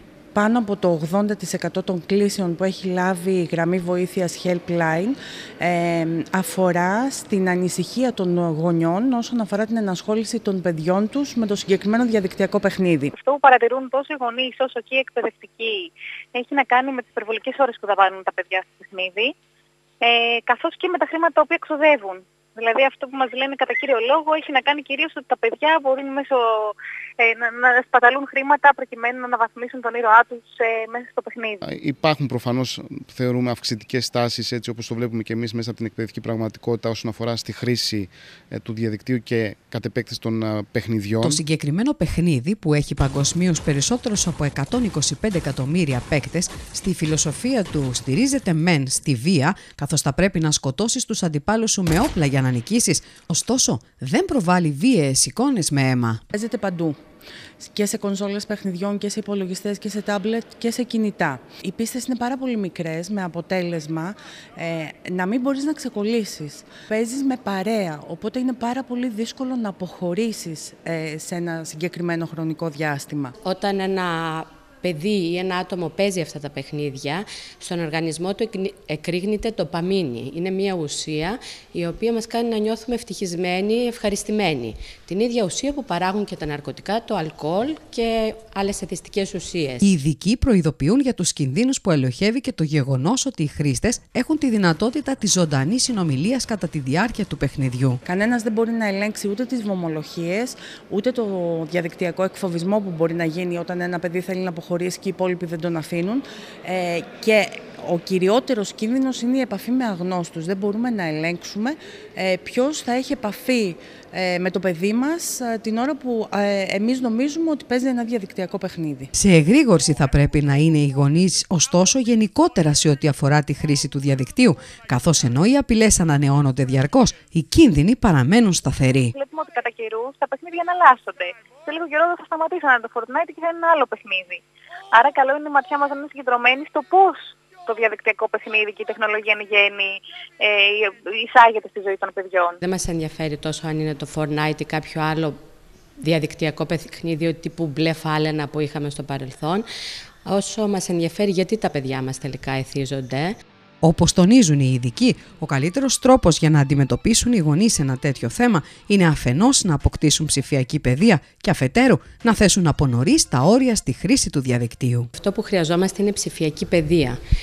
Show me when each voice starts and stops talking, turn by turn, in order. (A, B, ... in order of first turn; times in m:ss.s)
0:00.3-0:13.1 A
0:13.1-0:19.3 B
0:20.0-0:31.6 B
0:31.6-0:41.4 C
0:41.2-0:56.2 D
0:56.3-0:57.0 A
0:57.6-1:13.3 A
1:13.4-1:29.9 E
1:29.8-1:38.0 D
1:38.0-1:59.1 A
1:59.1-2:09.1 D
2:09.1-2:22.6 B
2:22.6-2:25.4 E
2:26.0-2:29.6 E
2:30.2-2:33.4 E
2:33.8-2:45.1 D
2:45.1-2:47.2 E